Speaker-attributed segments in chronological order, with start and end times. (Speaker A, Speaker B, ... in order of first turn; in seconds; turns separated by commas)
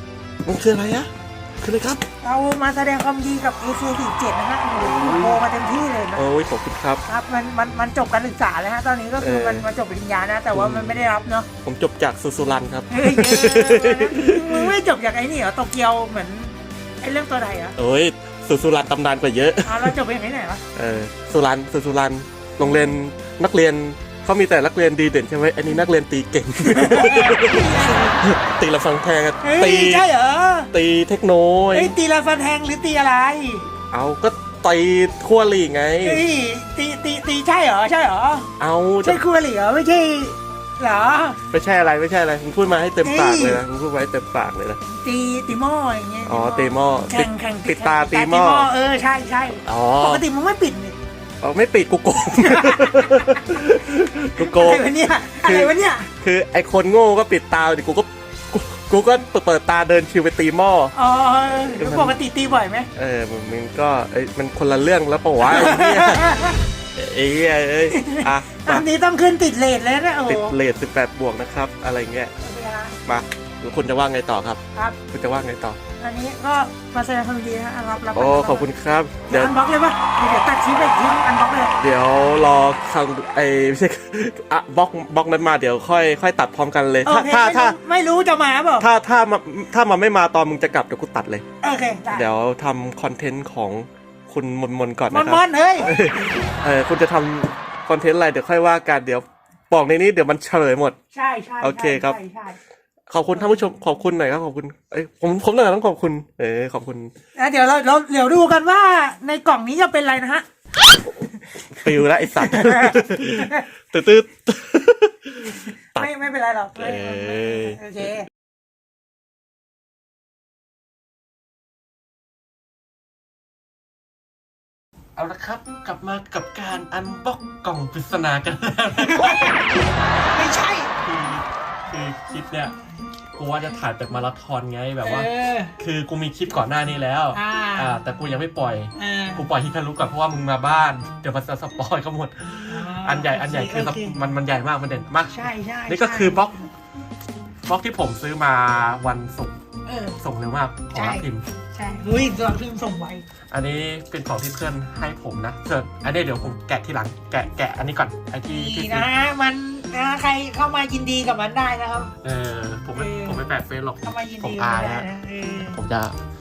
Speaker A: 0.5-2.1, Speaker B: 2.2-6.2, Speaker A: 4.8-5.4, Speaker A: 6.2-7.0, Speaker B: 7.1-11.5, Speaker A: 9.2-9.7, Speaker A: 10.5-11.1, Speaker A: 11.6-14.8, Speaker B: 12.9-17.8, Speaker A: 17.8-19.9, Speaker B: 19.6-20.6, Speaker A: 20.8-30.1, Speaker B: 26.6-28.2, Speaker B: 29.4-30.7, Speaker A: 30.7-31.9, Speaker B: 31.7-33.7, Speaker A: 33.9-36.2, Speaker B: 36.0-38.5, Speaker A: 38.6-39.2, Speaker B: 39.0-41.4, Speaker A: 41.5-44.8, Speaker B: 43.0-43.6, Speaker B: 44.9-51.0, Speaker A: 46.2-48.7, Speaker A: 49.6-50.2, Speaker A: 51.4-54.9, Speaker B: 52.4-53.7, Speaker B: 54.4-56.1, Speaker A: 55.4-60.9, Speaker B: 61.0-62.9, Speaker A: 61.7-62.2, Speaker A: 63.0-68.9, Speaker B: 65.4-66.6, Speaker B: 67.9-70.6, Speaker A: 70.3-72.3, Speaker B: 72.4-73.0, Speaker A: 73.0-75.8, Speaker B: 76.0-78.7, Speaker A: 78.1-79.5, Speaker B: 79.3-81.8, Speaker A: 81.8-87.8, Speaker B: 87.0-88.9, Speaker A: 88.8-91.5, Speaker B: 91.6-92.3, Speaker A: 92.1-101.0, Speaker B: 95.1-95.9, Speaker B: 101.1-102.6, Speaker A: 101.6-102.2, Speaker A: 103.1-107.1, Speaker B: 107.4-110.5, Speaker A: 111.7-116.1, Speaker B: 111.8-113.7, Speaker B: 115.9-118.3, Speaker A: 116.8-117.8, Speaker A: 125.2-129.6, Speaker B: 129.0-129.6, Speaker B: 130.3-130.9, Speaker A: 131.0-132.8, Speaker A: 133.4-146.5, Speaker B: 135.0-135.8, Speaker B: 137.3-138.0, Speaker B: 139.0-139.4, Speaker B: 142.7-144.2, Speaker B: 145.3-146.7, Speaker A: 147.7-149.6, Speaker B: 149.9-150.2, Speaker A: 150.2-151.4, Speaker B: 150.9-153.3, Speaker A: 153.5-159.1, Speaker B: 158.5-162.1, Speaker A: 162.2-165.1, Speaker B: 162.9-163.4, Speaker B: 164.0-165.8, Speaker A: 165.7-166.2